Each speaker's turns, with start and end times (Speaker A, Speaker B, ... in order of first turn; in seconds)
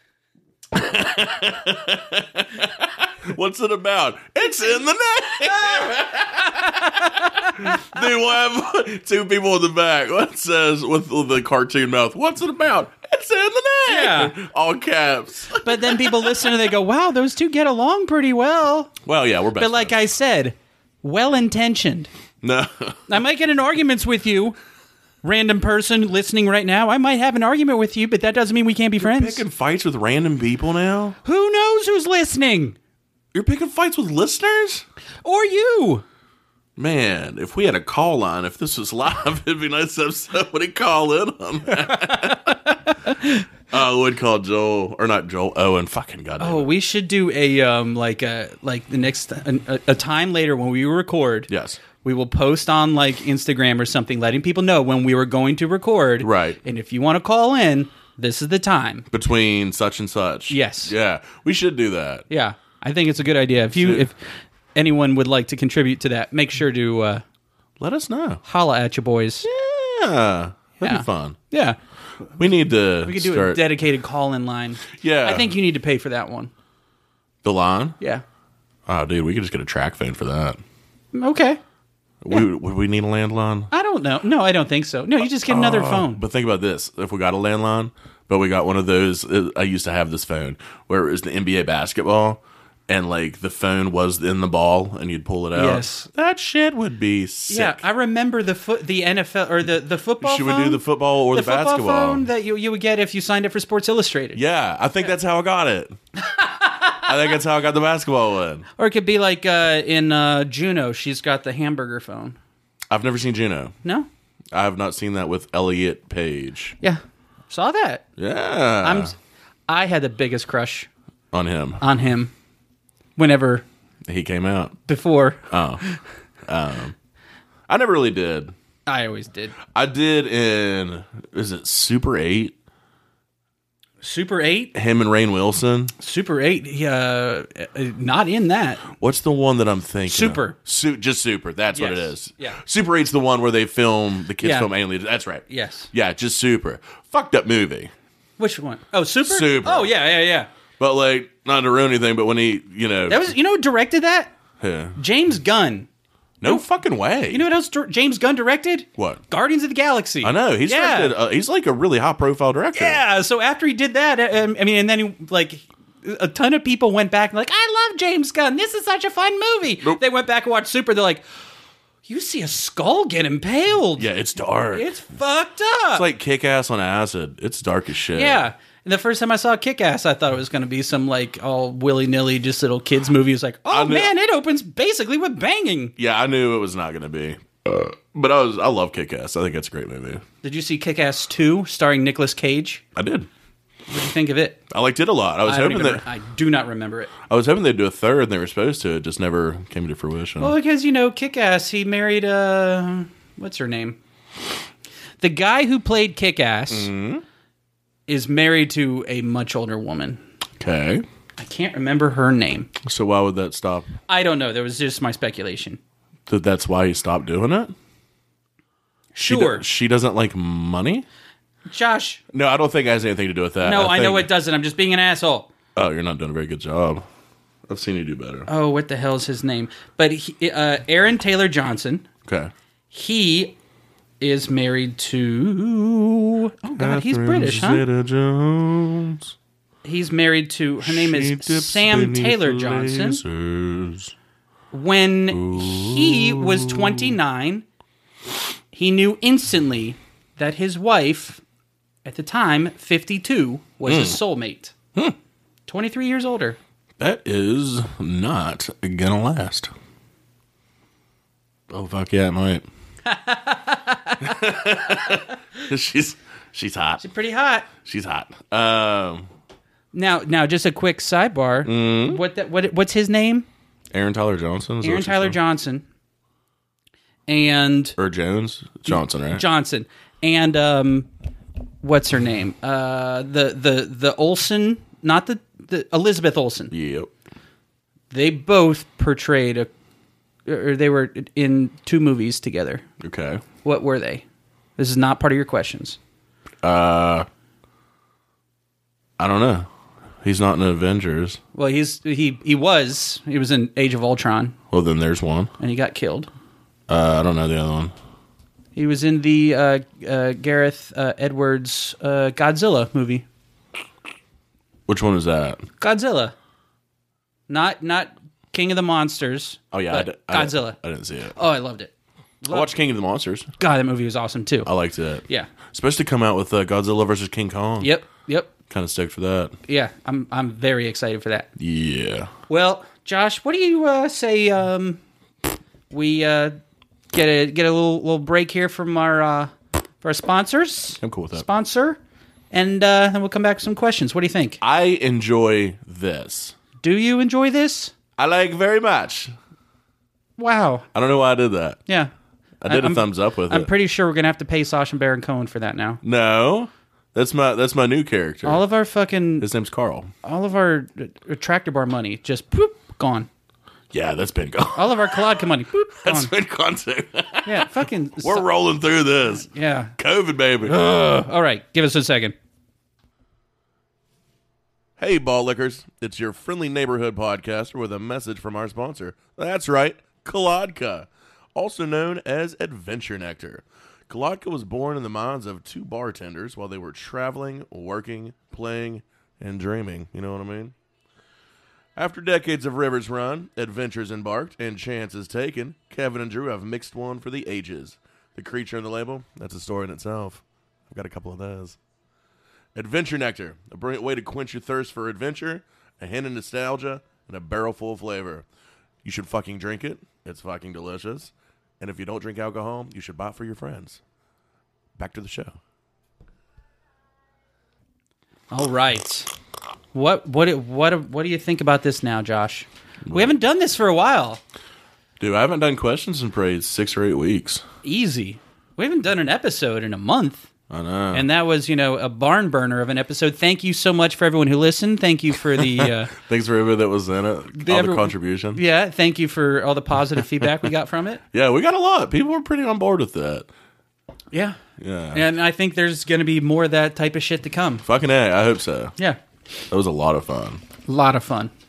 Speaker A: 0.7-16.6, 19.0-19.9, 22.4-23.1, 29.0-31.1, 33.3-34.8, 36.8-43.2, 43.7-46.7, 51.5-51.8, 56.2-56.6, 59.1-62.2, 63.7-64.1, 67.8-68.4, 69.4-71.4, 72.4-73.6, 74.9-75.5, 77.4-78.0, 78.8-80.6, 82.2-83.7, 85.5-97.8, 100.2-102.3, 104.3-105.9, 107.0-108.7, 112.9-113.7, 114.5-116.8, 118.2-119.1, 121.3-121.8, 124.0-124.8, 125.5-125.8, 126.5-127.0, 127.7-128.5, 129.7-132.5, 134.7-135.9, 138.9-147.9, 149.2-149.9, 150.8-153.3, 154.6-155.0, 156.4-157.4, 160.2-163.0, 174.0-174.9, 175.9-178.4, 183.7-184.1, 186.0-190.2, 192.9-193.3, 194.7-196.1, 197.3-200.5, 206.7-207.2, 210.6-211.0, 212.8-213.9, 216.3-217.7, 219.2-221.1, 222.3-224.3, 225.8-227.0, 227.7-228.5, 232.2-232.5, 236.8-239.3, 240.8-244.1, 245.3-247.2, 253.8-254.2, 257.0-259.7, 261.7-262.6, 264.2-267.0, 267.8-269.3, 271.6-272.2, 273.9-275.4, 278.0-279.4, 286.7-287.1, 293.0-293.4, 296.6-297.3, 299.2-299.7, 300.2-301.4, 304.7-305.5, 306.9-307.9, 314.9-315.6, 319.7-321.4, 322.5-323.5, 324.6-327.9, 328.7-329.5, 331.6-332.3, 341.0-341.4, 344.6-346.6, 348.2-349.3, 350.9-351.8, 352.6-353.7, 356.0-358.6, 359.4-360.1, 363.9-370.7, 375.0-390.7, 391.9-401.8, 402.7-408.4, 409.0-414.0, 415.0-415.5, 423.1-423.4, 425.2-427.6, 430.7-431.3, 435.6-438.6, 441.3-443.5, 444.8-445.2, 447.8-448.9, 449.7-450.6
Speaker B: 5.6-7.8, 13.9-14.3, 15.6-18.9, 19.6-22.1, 23.1-24.6, 25.2-29.4, 31.2-32.8, 35.2-36.0, 41.8-43.4, 46.4-51.5, 52.0-59.0, 60.5-60.9, 62.3-64.2, 64.8-67.2, 68.4-69.5, 70.8-71.8, 73.0-76.5, 81.1-81.6, 83.7-86.2, 95.5-96.1, 97.5-104.4, 106.2-107.1, 108.8-112.4, 113.8-114.1, 116.8-118.0, 118.8-119.2, 119.7-120.9, 121.8-122.3, 123.2-123.6, 124.9-126.0, 128.9-129.6, 134.0-134.7, 136.0-138.9, 140.1-140.6, 141.7-142.6, 144.4-144.7, 145.5-145.9, 148.4-150.5, 153.1-154.3, 155.0-155.9, 157.3-161.2, 162.7-171.2, 172.1-174.1, 174.7-176.0, 178.1-185.9, 190.4-192.8, 193.9-194.6, 195.4-197.1, 200.4-204.0, 205.2-206.9, 208.1-210.2, 211.4-212.7, 214.1-215.8, 219.1-219.6, 221.7-222.2, 223.6-225.5, 228.5-232.1, 232.9-233.6, 234.2-237.8, 239.8-243.2, 244.7-247.6, 248.7-251.4, 252.0-254.7, 255.7-256.6, 263.0-264.3, 267.0-267.7, 269.9-273.5, 274.8-275.8, 277.3-277.9, 278.9-281.1, 281.8-286.7, 288.1-289.7, 290.4-292.8, 293.6-294.2, 294.8-296.0, 301.5-304.6, 305.6-306.3, 308.7-313.2, 315.8-316.3, 317.5-320.8, 321.3-322.7, 323.6-324.7, 325.3-325.5, 327.8-328.5, 329.6-331.5, 332.5-335.0, 335.9-336.5, 337.1-342.0, 342.5-344.6, 346.8-347.9, 350.4-350.9, 352.7-356.0, 358.4-359.5, 360.2-363.3, 364.7-366.3, 367.4-368.5, 369.3-369.9, 370.6-372.3, 418.5-419.3, 419.9-424.4, 427.8-430.5, 431.1-436.1, 437.5-441.2, 444.3-444.6, 445.1-447.8, 450.9-451.5